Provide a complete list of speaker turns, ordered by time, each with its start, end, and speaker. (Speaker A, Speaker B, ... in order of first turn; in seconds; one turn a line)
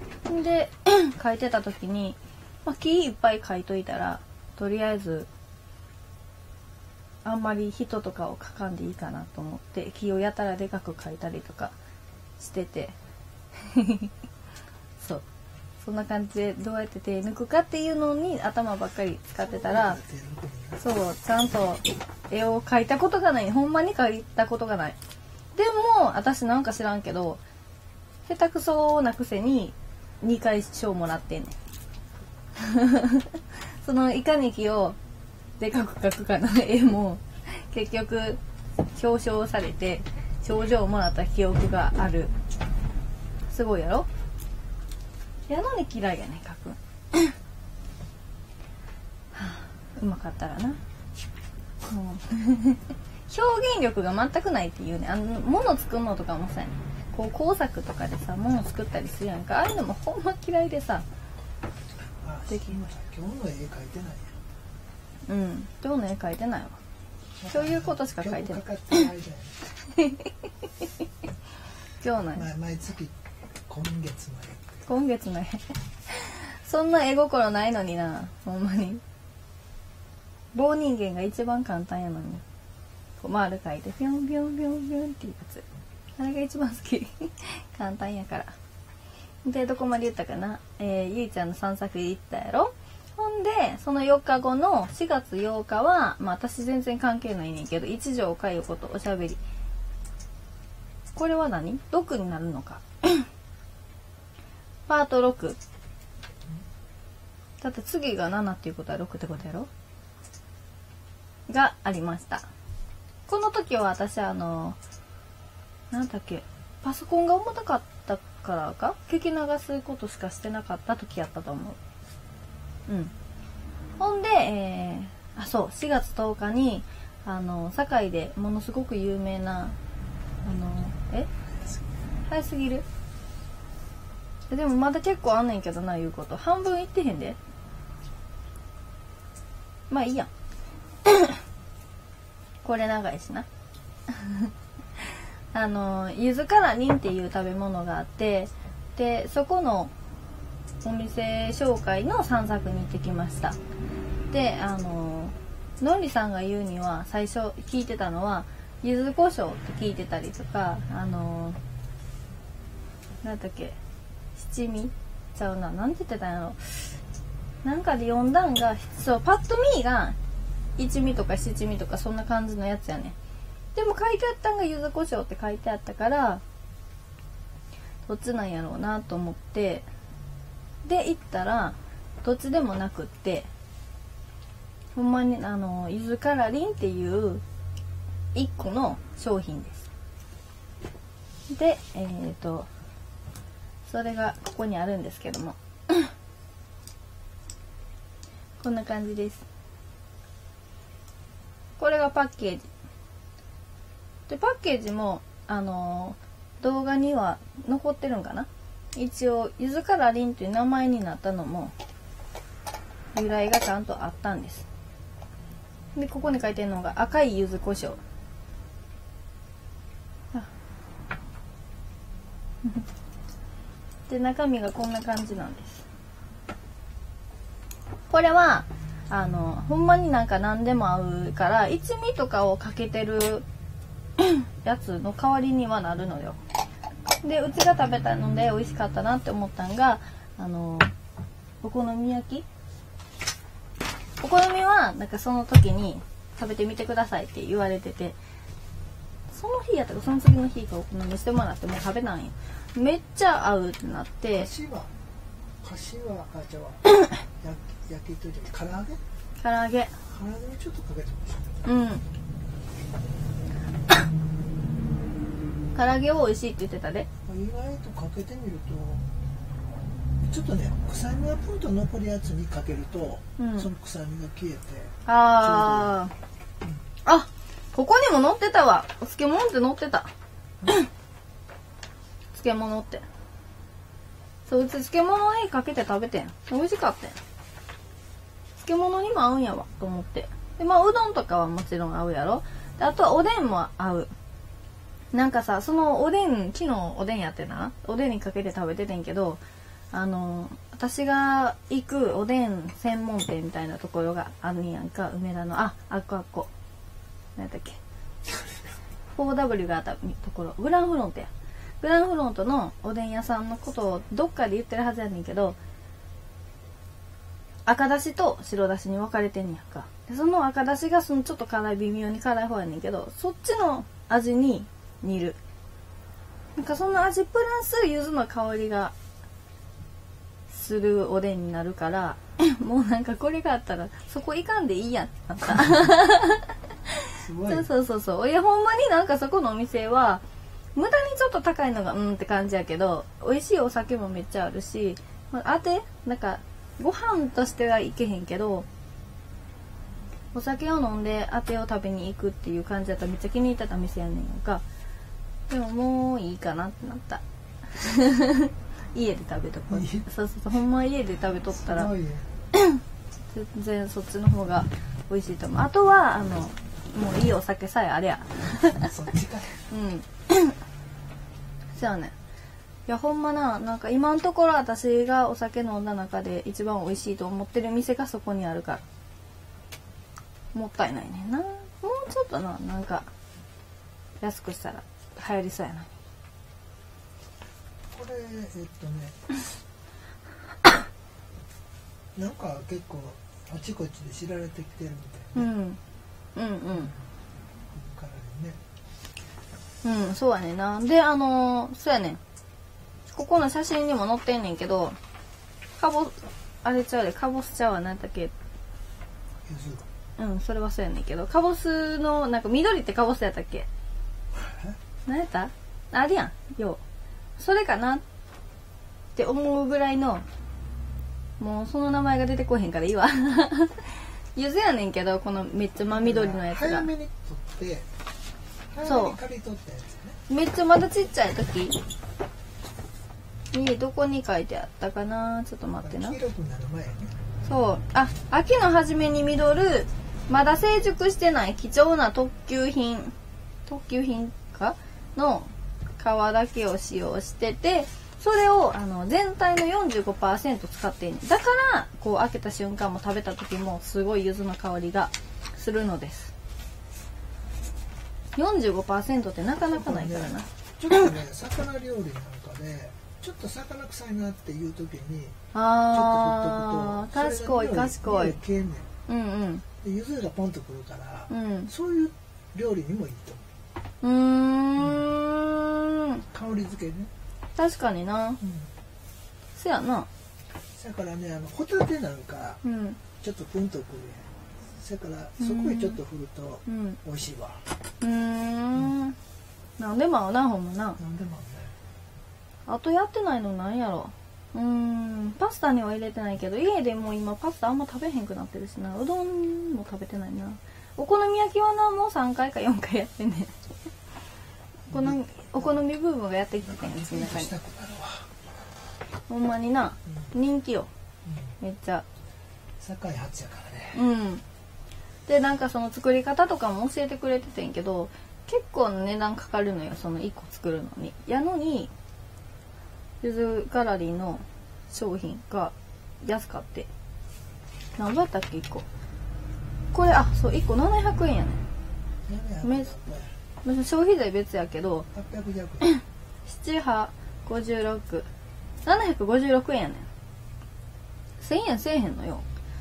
Speaker A: 0.3-5.3
Speaker A: 7.2-11.7
Speaker A: 12.4-12.9
Speaker A: 13.5-14.1
Speaker A: 15.8-20.0
Speaker B: 19.4-20.8
Speaker A: 20.8-25.0
Speaker A: 25.5-27.4
Speaker A: 28.2-31.5
Speaker A: 32.6-35.0
Speaker A: 35.6-38.4
Speaker A: 38.9-42.3
Speaker A: 43.5-44.1
Speaker A: 45.5-47.3
Speaker A: 49.3-50.8
Speaker A: 51.9-61.0
Speaker B: 62.2-64.3
Speaker A: 65.3-66.8
Speaker B: 67.4-69.6
Speaker A: 67.5-69.0
Speaker A: 69.9-70.3
Speaker A: 72.0-72.4
Speaker B: 72.3-74.8
Speaker A: 74.9-79.0
Speaker A: 80.5-82.4
Speaker A: 83.2-85.6
Speaker A: 86.2-88.5
Speaker A: 89.4-99.4
Speaker A: 101.1-103.3
Speaker A: 104.9-105.6
Speaker A: 107.6-109.7
Speaker A: 111.5-112.5
Speaker A: 113.3-114.8
Speaker A: 115.9-121.8
Speaker A: 122.9-123.1
Speaker A: 124.0-129.8
Speaker A: 130.4-131.3
Speaker A: 132.3-132.8
Speaker A: 134.5-137.4
Speaker A: 139.9-140.3
Speaker A: 141.1-141.4
Speaker A: 142.6-143.5
Speaker A: 144.1-144.5
Speaker A: 145.5-149.9
Speaker A: 150.8-153.6
Speaker A: 154.3-161.6
Speaker A: 163.2-163.8
Speaker A: 164.4-167.0
Speaker A: 167.6-170.2
Speaker A: 170.8-173.2
Speaker A: 173.7-176.4
Speaker A: 178.1-179.8
Speaker A: 180.8-183.5
Speaker A: 184.9-187.4
Speaker A: 188.3-189.9
Speaker A: 191.5-192.7
Speaker A: 193.9-196.1
Speaker A: 198.6-199.4
Speaker A: 201.8-202.7
Speaker A: 204.3-211.7
Speaker A: 213.1-214.7
Speaker A: 215.9-218.0
Speaker A: 224.1-225.8
Speaker A: 228.1-233.4
Speaker A: 234.2-236.4
Speaker A: 237.2-240.9
Speaker A: 241.6-242.4
Speaker A: 244.2-248.2
Speaker A: 249.3-254.5
Speaker B: 254.3-254.9
Speaker B: 255.6-256.8
Speaker B: 257.4-259.0
Speaker A: 259.4-259.9
Speaker B: 260.1-261.7
Speaker A: 261.6-262.0
Speaker A: 265.7-267.1
Speaker B: 267.2-269.1
Speaker B: 270.2-275.9
Speaker A: 273.4-273.7
Speaker A: 275.1-276.1
Speaker A: 277.0-280.1
Speaker A: 282.3-283.0
Speaker A: 284.5-287.2
Speaker A: 288.6-294.1
Speaker A: 295.1-299.4
Speaker A: 299.9-306.5
Speaker A: 307.4-307.8
Speaker B: 308.3-308.5
Speaker A: 309.1-311.3
Speaker A: 311.8-315.6
Speaker A: 317.6-325.4
Speaker A: 326.6-328.9
Speaker A: 330.5-340.2
Speaker B: 335.6-335.9
Speaker B: 337.2-337.7
Speaker A: 340.8-348.6
Speaker A: 350.3-354.6
Speaker A: 355.5-361.9
Speaker B: 359.7-360.1
Speaker B: 361.5-362.3
Speaker A: 362.5-362.8
Speaker A: 363.3-368.9
Speaker B: 368.7-369.7
Speaker A: 369.7-370.6
Speaker A: 371.8-372.1
Speaker A: 372.9-378.8
Speaker A: 380.5-383.1
Speaker A: 384.2-385.9
Speaker B: 387.9-389.4
Speaker B: 392.1-395.5
Speaker A: 395.3-395.8
Speaker A: 396.4-396.9
Speaker B: 397.7-398.6
Speaker A: 399.8-402.2
Speaker A: 403.1-405.0
Speaker A: 405.8-408.3
Speaker B: 409.4-409.9
Speaker A: 410.2-413.7
Speaker B: 414.3-414.8
Speaker A: 415.1-416.8
Speaker A: 417.4-418.0
Speaker A: 419.1-420.2
Speaker A: 421.4-426.9
Speaker B: 425.9-427.9
Speaker B: 428.7-430.2
Speaker A: 428.8-429.2
Speaker A: 430.3-431.8
Speaker A: 433.5-436.2
Speaker B: 435.8-437.1
Speaker A: 437.4-443.1
Speaker A: 443.7-456.3
Speaker A: 458.4-461.1
Speaker B: 459.6-465.4
Speaker A: 465.5-468.4
Speaker B: 465.9-468.9
Speaker A: 469.1-469.6
Speaker B: 469.8-473.5
Speaker A: 471.3-471.7
Speaker A: 474.0-476.2
Speaker B: 474.8-475.1
Speaker B: 476.3-477.1
Speaker A: 477.6-478.4
Speaker B: 478.4-478.7
Speaker A: 479.6-480.1
Speaker B: 480.7-482.6
Speaker A: 482.6-483.0
Speaker B: 483.2-487.6
Speaker A: 485.4-486.0
Speaker A: 486.6-487.0
Speaker A: 488.0-489.1
Speaker A: 489.8-491.0
Speaker B: 491.0-491.7
Speaker A: 492.7-503.5
Speaker B: 504.9-505.8
Speaker A: 504.9-507.5
Speaker B: 506.6-508.3
Speaker A: 509.3-510.9
Speaker B: 511.2-511.6
Speaker A: 511.6-512.0
Speaker B: 512.8-514.0
Speaker A: 513.9-514.4
Speaker A: 515.3-521.9
Speaker A: 523.2-526.9
Speaker A: 528.0-528.9
Speaker A: 529.9-531.6
Speaker B: 532.2-533.4
Speaker A: 532.6-532.9
Speaker A: 533.6-535.1
Speaker B: 535.1-535.9
Speaker A: 535.8-538.3
Speaker A: 538.8-540.1
Speaker A: 541.4-542.4